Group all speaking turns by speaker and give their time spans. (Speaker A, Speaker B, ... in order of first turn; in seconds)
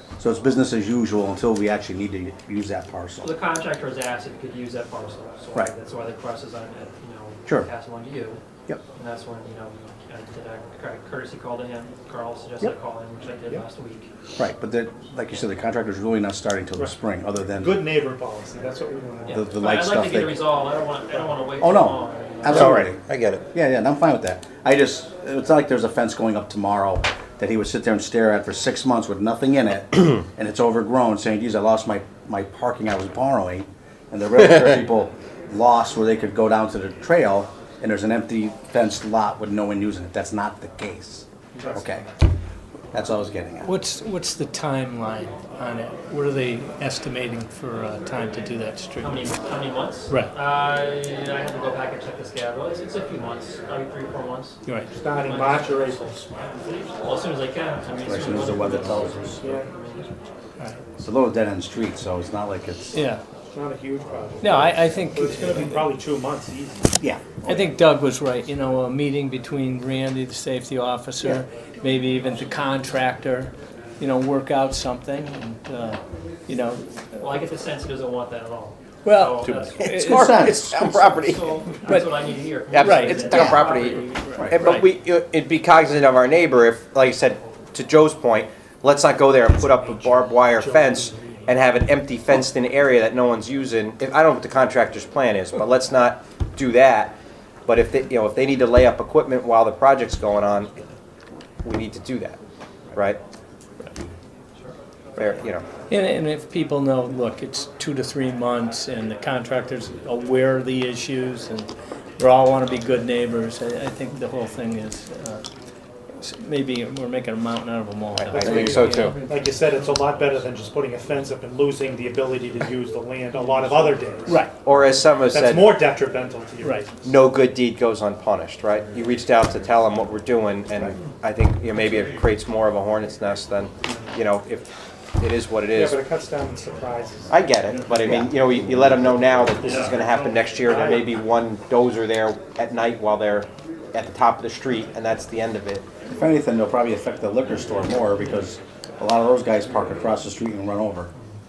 Speaker A: 0.2-3.3, 14.3-17.8, 19.3-20.4, 21.6-23.0, 23.5-42.1, 42.9-43.7, 57.9-59.4, 61.0-63.0, 67.0-67.5, 79.9-81.0, 83.3-83.7, 138.0-138.3, 146.1-151.1
Speaker B: 3.2-8.4, 8.9-14.1, 19.2-22.8, 49.0-54.6, 55.1-60.1, 77.2-79.9, 80.7-84.3
Speaker C: 17.6-19.4, 41.5-41.8, 54.9-56.3, 59.4-59.7, 63.5-66.9, 90.5-91.5, 118.3-124.4, 125.2-126.9, 135.7-137.3, 140.6-141.1
Speaker D: 22.4-23.4, 79.4-81.4, 82.7-97.2, 97.7-100.8, 101.6-102.4, 105.2-105.6, 118.1-119.2, 124.6-125.9, 127.0-134.7, 135.2-136.0, 137.3-145.9
Speaker E: 43.6-49.3, 62.9-63.2, 64.4-65.8, 67.4-77.2, 79.0-80.5, 82.8-84.9, 105.9-115.5, 116.2-119.2, 124.3-124.5, 126.6-126.9